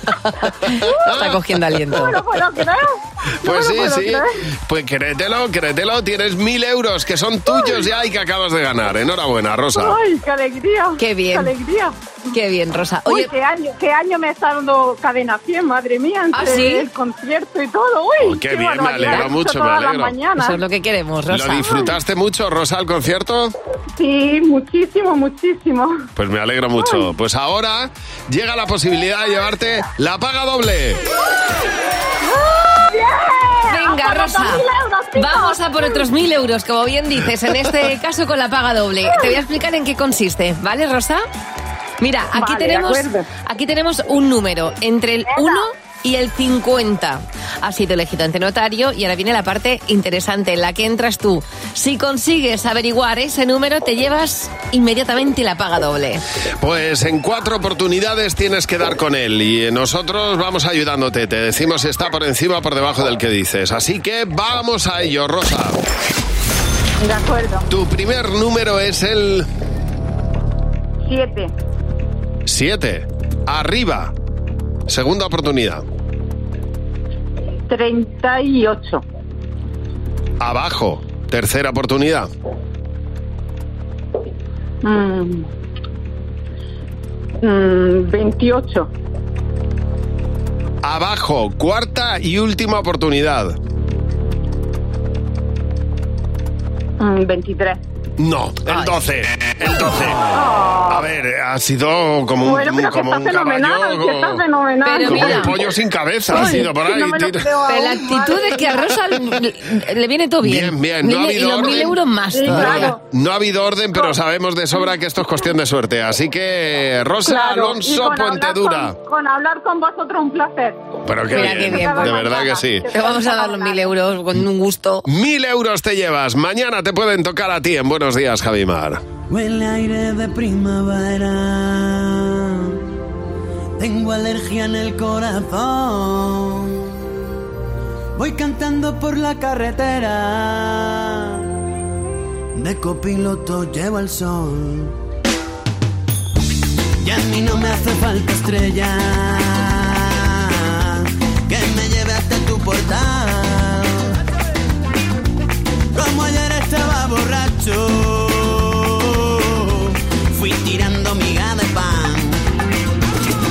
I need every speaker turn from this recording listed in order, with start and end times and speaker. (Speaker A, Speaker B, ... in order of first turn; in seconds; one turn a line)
Speaker A: 0.4-2.2
Speaker B: 0.8-1.2
Speaker B: 1.9-4.3
Speaker C: 3.4-10.0
Speaker B: 7.5-7.8
Speaker B: 9.7-11.9
Speaker A: 11.0-11.5
Speaker A: 12.3-13.3
Speaker B: 13.1-20.6
Speaker A: 16.3-16.9
Speaker C: 18.2-20.2
Speaker A: 19.1-19.3
Speaker A: 20.4-21.8
Speaker C: 21.3-23.5
Speaker B: 24.0-26.0
Speaker C: 26.1-31.0
Speaker B: 26.8-27.0
Speaker B: 32.2-36.1
Speaker A: 33.7-34.6
Speaker A: 35.1-41.2
Speaker B: 39.1-39.4
Speaker A: 42.0-56.2
Speaker B: 42.3-43.2
Speaker B: 45.3-45.6
Speaker C: 56.6-65.8
Speaker B: 67.0-67.6
Speaker C: 67.7-69.5
Speaker B: 71.0-71.5
Speaker C: 72.5-74.1
Speaker C: 74.9-75.8
Speaker B: 77.7-79.0
Speaker C: 80.4-82.3
Speaker B: 84.8-85.5
Speaker B: 87.4-88.9
Speaker C: 90.8-93.5
Speaker B: 97.0-97.8
Speaker C: 98.2-100.3
Speaker B: 100.3-101.0
Speaker C: 100.9-104.4
Speaker B: 102.4-105.6
Speaker A: 104.8-105.5
Speaker C: 105.0-107.5
Speaker B: 106.3-108.9
Speaker A: 106.3-106.6
Speaker A: 107.7-113.0
Speaker C: 110.4-119.0
Speaker B: 111.5-113.0
Speaker B: 117.2-120.8
Speaker C: 121.0-122.9
Speaker A: 121.3-125.0
Speaker B: 121.3-123.9
Speaker C: 125.0-129.0
Speaker D: 129.3-132.7
Speaker D: 133.8-136.8
Speaker D: 138.2-141.4
Speaker D: 142.5-144.9
Speaker D: 147.0-154.1
Speaker D: 155.9-162.4